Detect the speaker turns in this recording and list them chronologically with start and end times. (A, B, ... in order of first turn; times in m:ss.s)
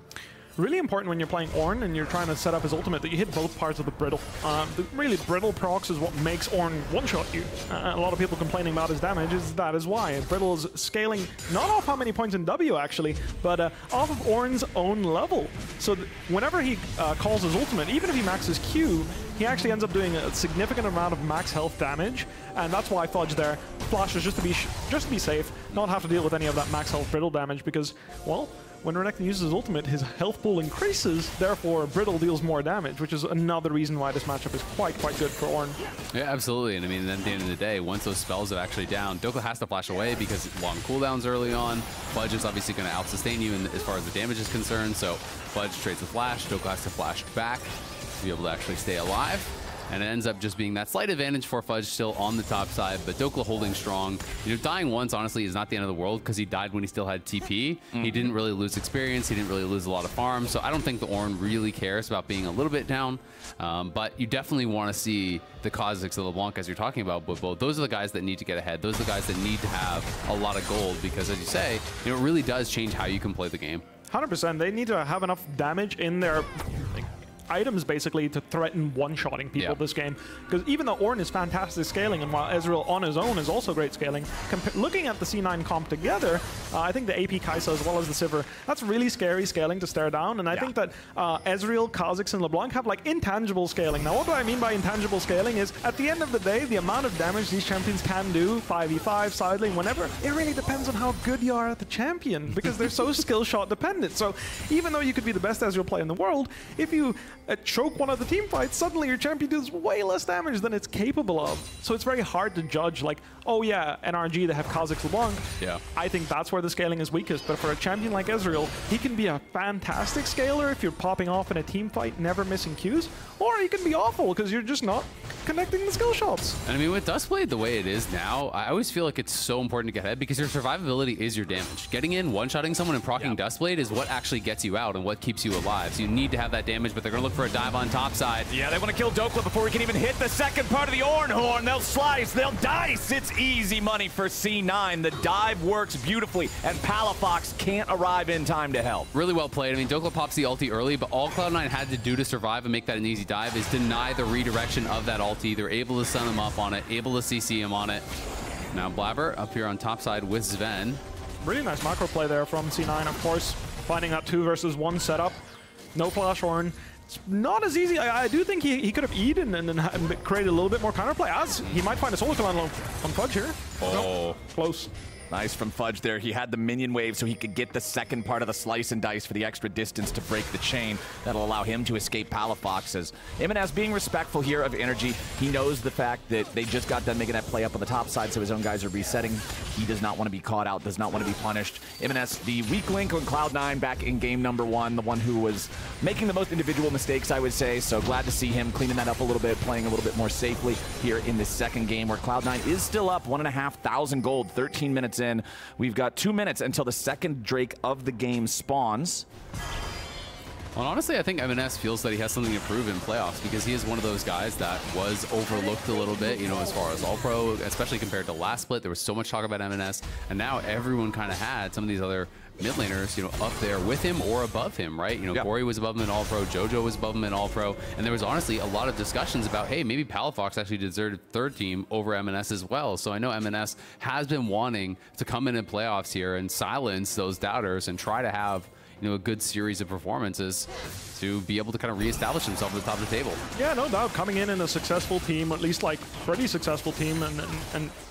0:00.6-0:35.8 A
0:36.1-1:13.8 B
0:57.9-0:58.3 C
1:14.1-2:06.6 A
2:06.6-2:18.5 B
2:18.5-2:29.1 C
2:29.1-2:38.0 B
2:38.7-2:41.0 B
2:41.4-2:45.4 A
2:45.9-2:54.9 A
2:53.8-2:54.1 C
2:53.8-2:54.3 B
2:55.3-3:29.3 C
3:30.8-4:03.4 B
4:03.6-4:07.9 A